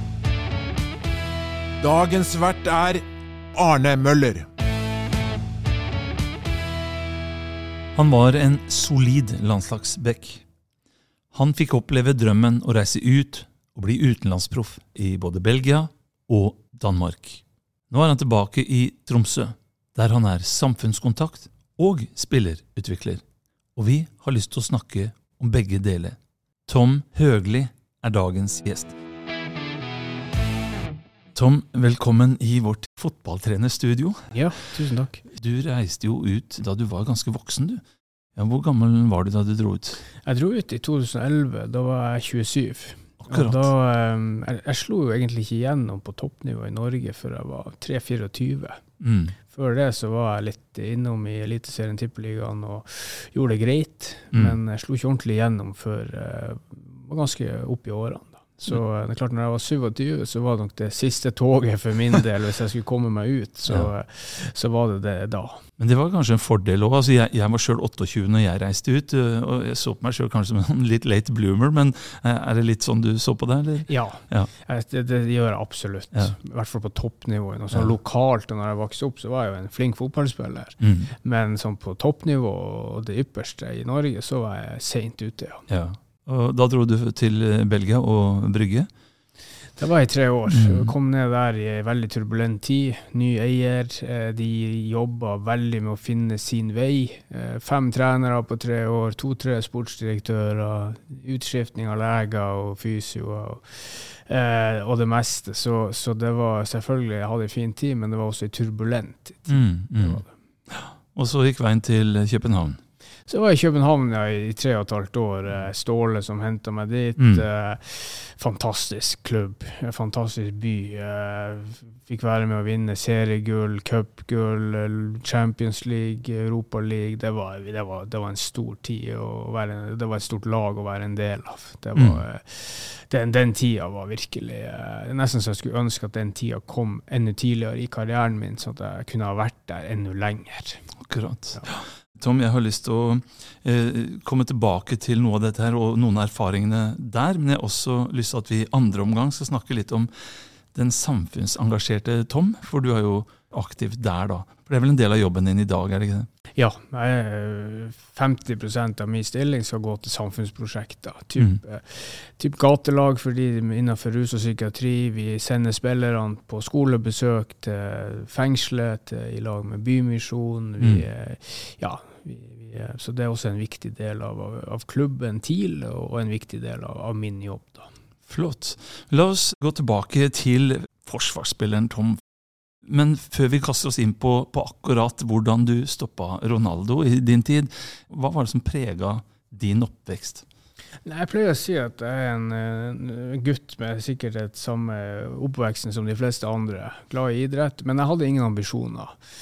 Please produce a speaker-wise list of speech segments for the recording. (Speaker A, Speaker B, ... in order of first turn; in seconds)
Speaker A: 1.8-3.0, 3.5-4.5
Speaker B: 7.9-10.4, 11.3-23.2, 23.8-28.9, 31.3-34.3, 35.3-37.8, 38.4-40.0, 43.2-43.7, 49.0-49.4, 65.8-74.5, 80.8-81.1, 85.7-88.9, 90.5-90.9, 109.5-112.8, 117.2-117.4, 131.9-132.2, 141.0-156.3, 178.3-182.2, 182.8-190.4
Speaker C: 34.3-35.2, 40.2-48.8, 49.5-65.6, 73.9-85.7, 89.8-110.3, 113.3-140.8, 156.6-177.9, 191.1-199.2